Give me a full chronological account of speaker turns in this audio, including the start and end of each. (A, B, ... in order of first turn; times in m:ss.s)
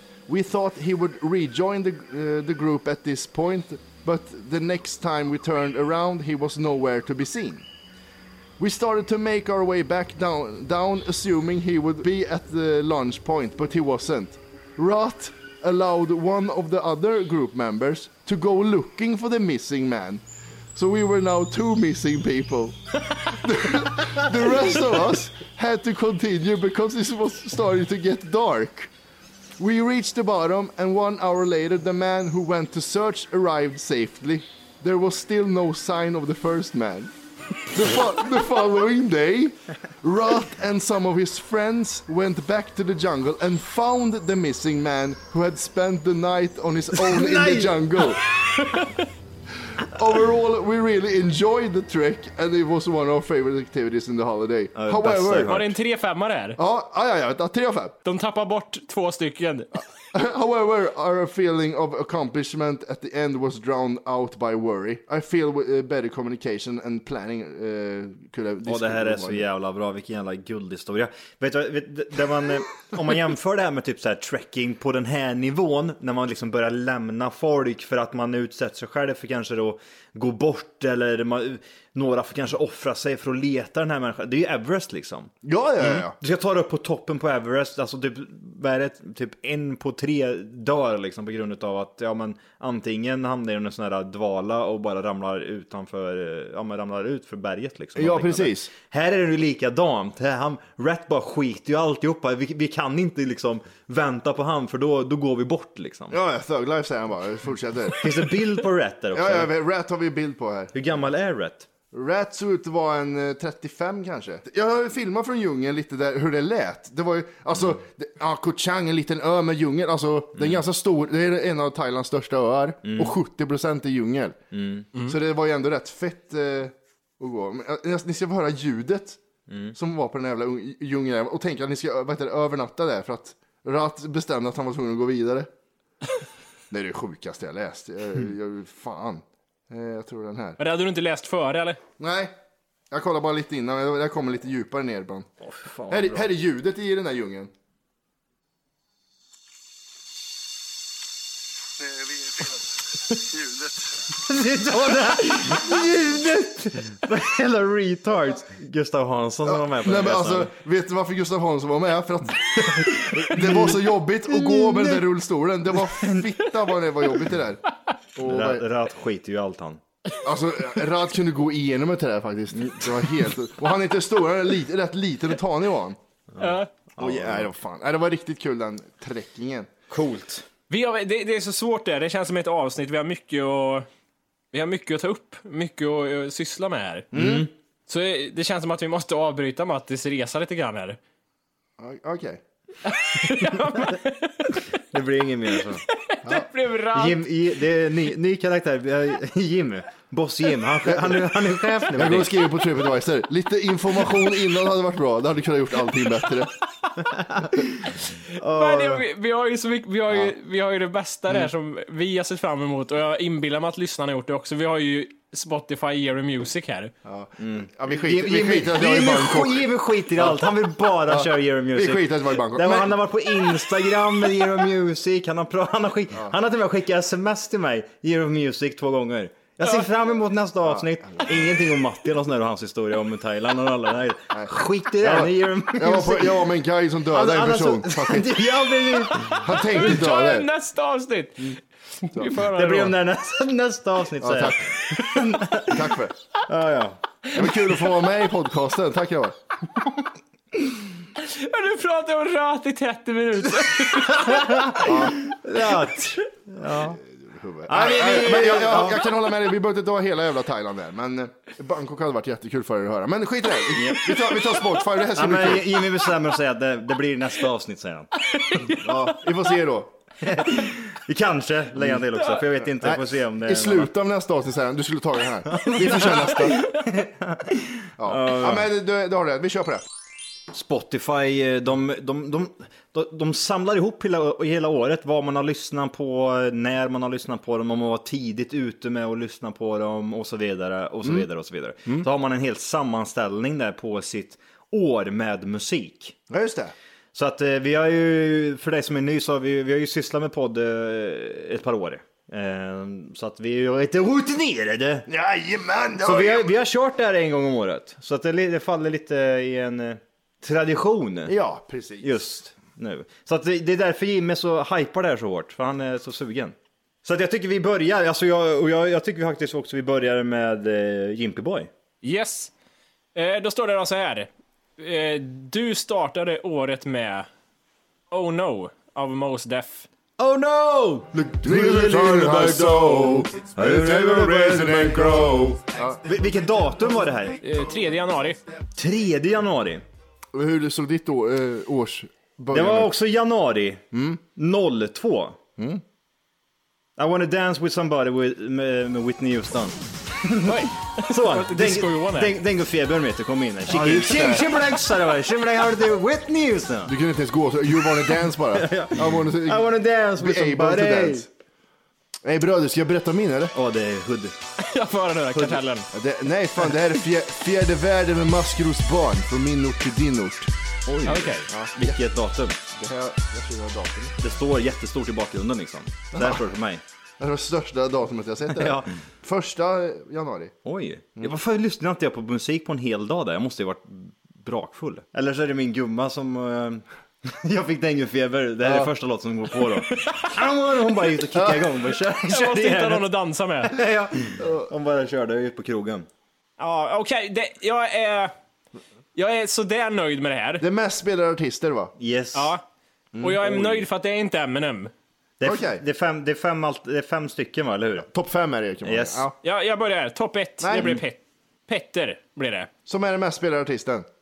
0:00.3-0:07.7 A
0:08.6-0:20.2 A
0:20.8-0:28.9 A
0:29.6-0:37.1 A
0:37.7-0:48.2 A
0:47.0-0:47.8 B
0:48.6-0:48.9 C
0:49.7-0:55.6 A
0:54.8-0:55.7 B
0:55.5-0:56.6 C
0:56.6-0:58.0 A
0:58.0-0:59.8 C
1:00.1-1:09.5 A
1:08.7-1:46.2 B
1:25.4-1:26.2 A
1:38.0-1:38.7 A
1:46.1-1:48.1 A
1:48.0-1:49.5 B
1:49.1-1:50.8 A
1:50.7-1:51.7 B
1:51.9-2:04.4 A
2:02.8-2:03.2 B
2:04.5-2:04.9 B
2:05.0-2:09.2 A
2:09.5-2:09.8 B
2:09.7-2:15.5 A
2:16.7-2:20.6 A
2:20.6-2:21.8 C
2:22.0-2:22.3 A
2:22.9-2:25.3 A
2:25.4-2:26.3 B
2:25.9-2:27.5 A
2:31.8-2:34.0 A
2:34.1-2:40.5 B
2:39.4-2:47.6 A
2:42.6-2:45.0 B
2:46.0-2:46.3 B
2:48.2-2:48.7 A
2:48.2-2:49.8 B
2:50.2-2:56.0 A
2:52.6-2:52.9 B
2:56.3-2:57.5 B
2:56.4-2:56.7 C
2:57.0-2:59.7 A
2:59.9-3:00.5 B
3:00.7-3:03.9 C
3:04.5-3:07.1 C
3:07.1-3:07.5 A
3:07.1-3:07.5 B
3:07.9-3:11.0 C
3:11.8-3:12.4 A
3:12.9-3:14.6 C
3:14.9-3:15.8 B
3:15.9-3:17.2 C
3:16.9-3:22.4 B
3:20.8-3:21.2 A
3:21.9-3:26.5 A
3:27.0-3:29.1 B
3:28.4-3:36.9 C
3:37.0-3:43.0 A
3:37.4-3:56.5 B
3:50.6-3:51.3 A
3:54.3-3:58.4 A
3:57.1-3:59.4 B
3:59.1-4:03.0 C
3:59.2-4:00.5 A
4:02.4-4:05.9 B
4:04.2-4:04.8 A
4:05.6-4:06.2 A
4:06.5-4:07.0 B
4:07.3-4:09.4 A
4:11.2-4:14.9 C
4:14.1-4:17.0 B
4:14.8-4:15.2 A
4:15.6-4:16.1 C
4:16.8-4:25.9 A
4:17.7-4:19.1 B
4:23.8-4:24.1 B
4:25.1-4:28.1 B
4:28.3-4:29.1 C
4:28.7-4:29.9 A
4:30.2-4:33.9 B
4:31.8-4:32.0 A
4:32.6-4:36.6 A
4:35.5-4:38.7 B
4:38.0-4:39.9 A
4:40.5-4:56.2 B
4:56.3-4:56.7 A
4:57.1-5:05.1 B
5:05.1-5:06.5 A
5:06.0-5:11.4 B
5:11.3-5:12.1 A
5:12.0-5:21.7 B
5:22.0-5:22.5 C
5:23.2-5:27.3 C
5:28.1-5:29.9 C
5:30.2-5:35.5 B
5:31.4-5:36.0 A
5:36.0-5:37.4 B
5:37.4-5:38.4 C
5:38.8-5:39.8 B
5:40.3-5:42.9 A
5:42.5-5:45.4 B
5:43.9-5:44.2 A
5:45.6-5:45.8 A
5:47.0-5:56.9 B
5:50.4-5:52.4 C
5:53.7-5:54.5 A
5:56.9-6:01.3 A
5:58.2-6:01.3 B
6:02.2-6:03.6 A
6:03.5-6:04.4 B
6:04.6-6:05.9 C
6:05.9-6:10.5 A
6:10.9-6:12.6 B
6:11.0-6:11.5 C
6:11.5-6:12.0 A
6:12.7-6:14.2 A
6:14.2-6:16.8 B
6:16.1-6:16.4 A
6:17.2-6:20.5 A
6:18.5-6:18.9 B
6:20.6-6:33.1 B
6:28.6-6:28.9 A
6:31.4-6:31.7 A
6:32.3-6:33.8 C
6:33.6-6:36.1 B
6:34.4-6:34.7 A
6:36.6-6:38.3 C
6:39.2-6:40.6 C
6:40.6-6:41.9 A
6:42.0-6:42.5 B
6:42.3-6:42.6 C
6:43.1-6:43.4 A
6:43.2-6:44.9 C
6:43.4-6:43.8 B
6:45.4-6:48.1 B
6:45.4-6:45.8 A
6:48.0-6:49.4 A
6:48.8-6:49.3 B
6:49.4-6:52.7 C
6:50.6-6:51.0 A
6:52.9-6:54.1 A